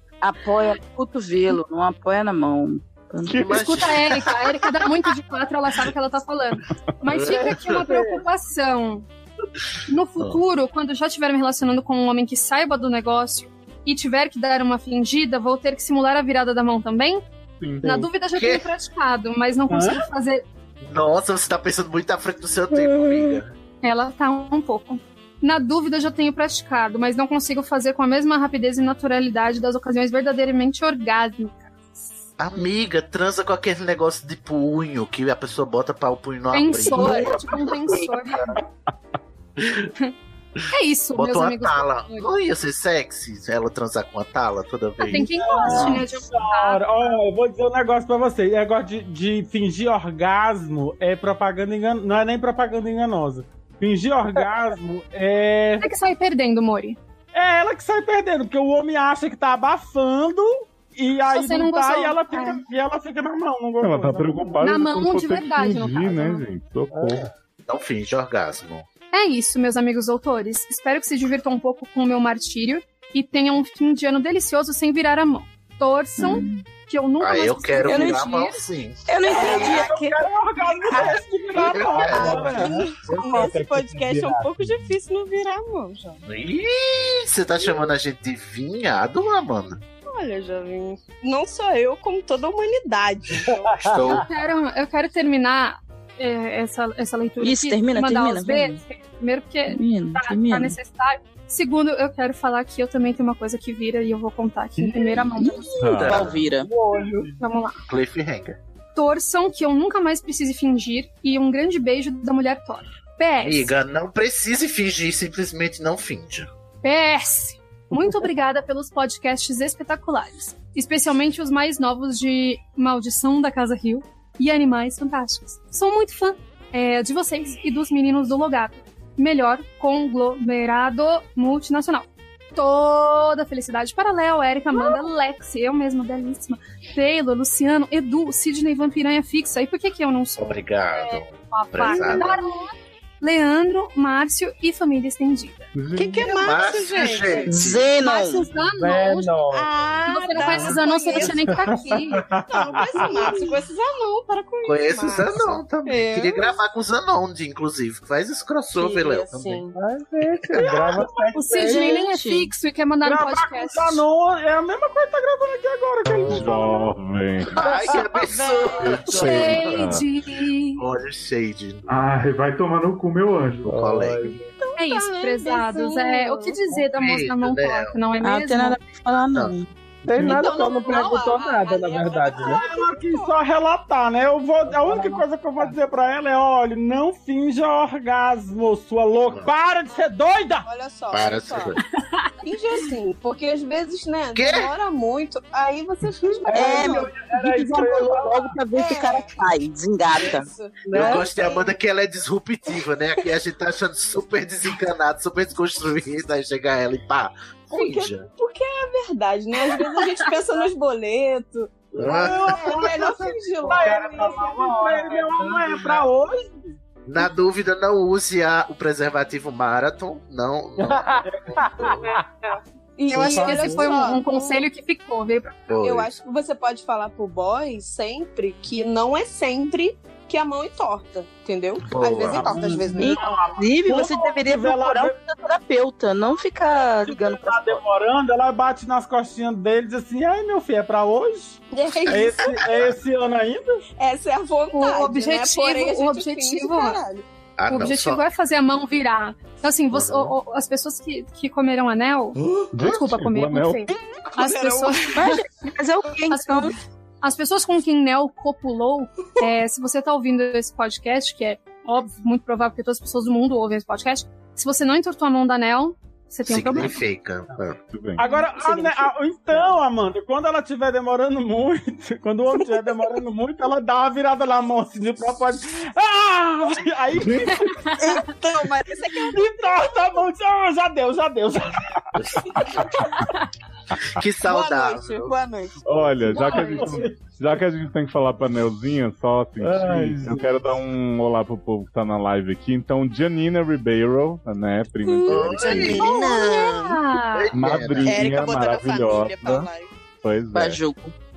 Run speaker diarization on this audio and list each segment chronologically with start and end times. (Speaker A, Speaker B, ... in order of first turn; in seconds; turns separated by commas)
Speaker A: 0.2-3.5, Speaker B: 3.2-3.8, Speaker C: 3.4-4.4, Speaker D: 3.5-9.1, Speaker C: 7.0-7.8, Speaker E: 7.4-8.2, Speaker D: 9.9-17.2, Speaker B: 17.6-18.1, Speaker D: 17.8-20.4, Speaker C: 18.3-18.7, Speaker F: 19.7-20.0, Speaker C: 20.8-23.5, Speaker A: 22.7-23.4, Speaker D: 23.8-32.2, Speaker C: 32.4-37.7, Speaker D: 36.5-38.5, Speaker A: 36.9-38.6, Speaker D: 40.7-42.3, Speaker C: 41.1-45.9, Speaker D: 45.0-47.2, Speaker F: 45.3-55.9, Speaker D: 55.8-57.0, Speaker F: 57.3-64.6, Speaker D: 61.3-62.6, Speaker B: 63.8-67.3, Speaker D: 64.6-66.4, Speaker E: 66.9-67.2, Speaker C: 67.7-68.8, Speaker D: 69.1-78.6, Speaker A: 76.2-76.6, Speaker C: 77.2-79.1, Speaker A: 77.8-78.2, Speaker A: 79.0-80.2, Speaker F: 79.2-84.4, Speaker G: 79.3-79.8, Speaker A: 80.8-81.2, Speaker G: 80.9-86.2, Speaker C: 81.6-82.7, Speaker E: 83.2-83.5, Speaker C: 86.2-89.8, Speaker G: 87.6-87.9, Speaker G: 90.1-93.8, Speaker C: 93.9-94.2, Speaker D: 94.0-105.8, Speaker A: 97.4-98.8, Speaker A: 99.7-100.8, Speaker A: 105.4-106.7, Speaker B: 105.8-106.4, Speaker C: 106.1-106.4, Speaker F: 106.7-107.3, Speaker E: 106.7-107.2, Speaker D: 107.4-107.8, Speaker C: 107.9-108.6, Speaker D: 108.9-113.7, Speaker C: 113.4-116.5, Speaker D: 116.8-145.7, Speaker C: 140.4-142.3, Speaker G: 141.8-142.3, Speaker B: 145.7-146.3, Speaker G: 145.9-147.6, Speaker C: 146.3-147.9, Speaker A: 147.5-148.5, Speaker D: 148.0-149.3, Speaker E: 148.8-149.7, Speaker G: 149.5-156.6, Speaker D: 150.1-152.2, Speaker F: 150.5-151.2, Speaker F: 152.3-153.5, Speaker C: 154.6-159.7, Speaker G: 158.8-159.7, Speaker E: 159.7-161.8, Speaker F: 160.9-161.3, Speaker D: 161.3-164.0, Speaker A: 161.5-162.5, Speaker F: 163.0-166.9, Speaker B: 166.2-167.7, Speaker C: 167.5-170.0, Speaker G: 168.4-168.7, Speaker B: 168.8-170.0, Speaker D: 169.1-170.8, Speaker C: 170.8-171.9, Speaker B: 171.9-173.7, Speaker E: 173.7-174.5, Speaker C: 173.7-174.4, Speaker G: 174.6-176.6, Speaker D: 174.8-178.8, Speaker C: 176.8-178.0, Speaker A: 178.2-179.7, Speaker E: 180.0-182.6, Speaker G: 180.2-183.3, Speaker F: 182.4-190.7, Speaker E: 184.8-185.2, Speaker G: 190.6-191.8, Speaker C: 191.1-191.8, Speaker D: 192.0-192.3, Speaker G: 192.4-197.1, Speaker C: 194.3-194.7, Speaker F: 196.4-198.5, Speaker E: 196.4-198.2, Speaker A: 196.5-200.4, Speaker G: 198.7-199.4, Speaker G: 200.1-201.7, Speaker E: 200.8-201.2, Speaker C: 200.9-208.3, Speaker G: 207.7-211.8, Speaker C: 212.0-212.7, Speaker F: 212.0-216.7, Speaker G: 212.5-214.6, Speaker E: 213.7-216.0, Speaker C: 217.1-222.0, Speaker E: 220.8-222.3, Speaker F: 221.3-221.9, Speaker G: 223.0-224.6, Speaker E: 223.1-223.4, Speaker D: 223.3-225.6, Speaker C: 223.3-223.7, Speaker C: 225.7-226.1, Speaker G: 225.8-233.2, Speaker C: 231.8-232.6, Speaker F: 232.3-235.2, Speaker A: 233.0-237.8, Speaker F: 237.1-243.8, Speaker G: 241.7-242.8, Speaker C: 242.1-242.9, Speaker G: 244.0-247.3, Speaker D: 244.7-247.0, Speaker C: 247.6-248.2, Speaker D: 247.7-255.4, Speaker C: 249.9-250.3, Speaker B: 252.7-253.8, Speaker G: 254.2-255.1, Speaker A: 255.1-256.7, Speaker D: 256.3-267.0, Speaker C: 266.4-267.8, Speaker B: 267.9-268.2, Speaker F: 268.2-277.9, Speaker G: 268.6-268.9, Speaker D: 277.6-278.2, Speaker G: 277.9-279.7, Speaker F: 279.2-282.1, Speaker C: 282.1-282.9, Speaker C: 284.1-285.3, Speaker G: 284.4-286.7, Speaker B: 285.9-295.9, Speaker D: 286.4-286.9, Speaker F: 286.4-287.1, Speaker F: 289.6-290.6, Speaker G: 295.1-297.0, Speaker C: 295.2-296.2, Speaker D: 295.7-297.5, Speaker C: 297.3-298.2, Speaker B: 297.5-299.7, Speaker G: 298.0-299.9, Speaker B: 300.2-300.8, Speaker A: 300.5-301.1